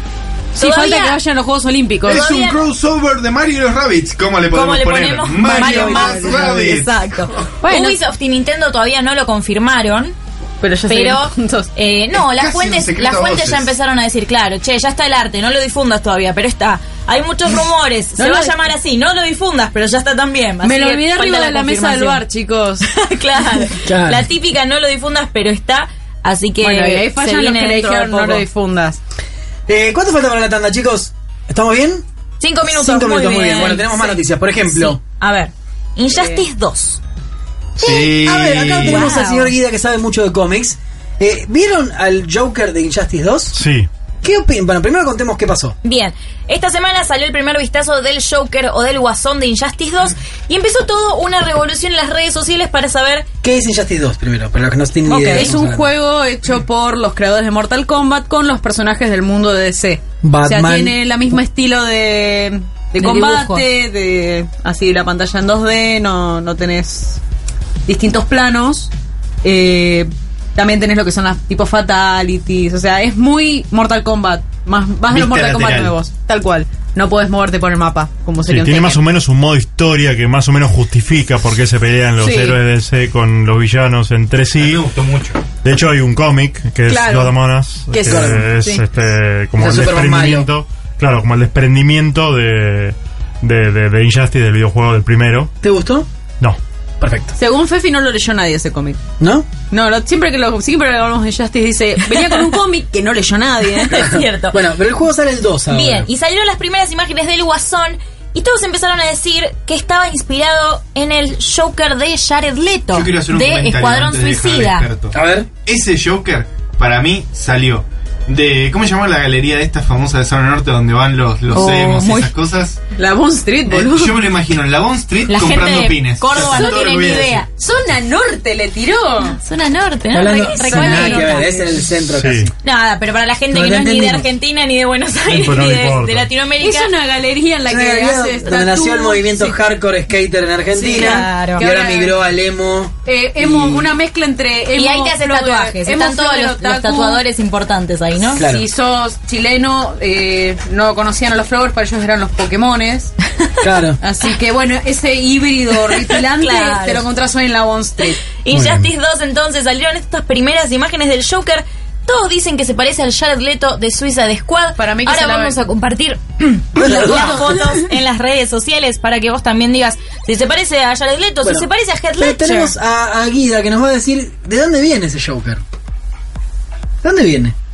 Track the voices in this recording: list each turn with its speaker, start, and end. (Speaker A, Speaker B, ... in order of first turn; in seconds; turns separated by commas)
Speaker A: 0.6-2.2, Speaker B: 0.6-1.2, Speaker C: 2.1-7.5, Speaker B: 2.1-2.6, Speaker B: 4.5-10.1, Speaker D: 5.4-6.6, Speaker A: 7.6-8.0, Speaker A: 10.6-11.7, Speaker B: 10.9-22.2, Speaker C: 12.1-13.7, Speaker D: 18.2-18.5, Speaker A: 20.6-22.9, Speaker B: 22.9-28.4, Speaker D: 23.9-24.3, Speaker A: 26.6-29.0, Speaker D: 29.7-32.0, Speaker B: 32.4-37.0, Speaker D: 32.6-35.0, Speaker A: 36.1-36.4, Speaker C: 37.8-39.1, Speaker D: 37.8-43.6, Speaker B: 38.8-39.5, Speaker E: 43.5-43.9, Speaker D: 44.2-45.8, Speaker B: 45.8-53.3, Speaker D: 53.4-55.9, Speaker B: 55.1-55.5, Speaker A: 55.1-67.2, Speaker D: 60.2-61.0, Speaker B: 63.0-63.6, Speaker A: 67.9-68.9, Speaker A: 69.4-79.0, Speaker C: 75.1-76.0, Speaker E: 78.5-84.9, Speaker A: 82.2-82.6, Speaker C: 84.6-85.4, Speaker E: 85.6-95.5, Speaker A: 86.9-88.8, Speaker D: 88.0-88.5, Speaker D: 89.6-90.5, Speaker D: 95.6-96.1, Speaker D: 97.0-97.3, Speaker A: 97.4-99.0, Speaker D: 99.2-99.5, Speaker A: 99.7-104.1, Speaker B: 103.8-104.6, Speaker D: 104.0-106.1, Speaker B: 105.7-114.9, Speaker C: 112.9-115.2, Speaker D: 115.1-115.5, Speaker C: 115.7-122.8, Speaker B: 121.5-122.3, Speaker A: 123.0-124.2, Speaker C: 123.7-127.5, Speaker B: 125.3-127.5, Speaker A: 126.3-126.8, Speaker A: 127.6-129.4, Speaker B: 129.4-131.7, Speaker D: 130.1-132.5, Speaker A: 130.6-131.6, Speaker E: 132.2-132.5, Speaker B: 132.6-136.9, Speaker D: 133.5-134.3, Speaker E: 135.3-136.3, Speaker A: 136.6-139.6, Speaker D: 137.7-143.9, Speaker A: 140.8-142.2, Speaker B: 140.8-141.7, Speaker A: 143.1-147.2, Speaker B: 144.8-148.4, Speaker A: 148.3-153.2, Speaker D: 148.4-148.7, Speaker D: 153.6-154.0, Speaker A: 154.0-158.2, Speaker B: 155.9-157.1, Speaker B: 158.4-172.7, Speaker D: 158.5-158.9, Speaker A: 164.8-165.6, Speaker D: 166.8-167.5, Speaker A: 166.8-167.8, Speaker D: 171.4-175.6, Speaker D: 177.0-177.6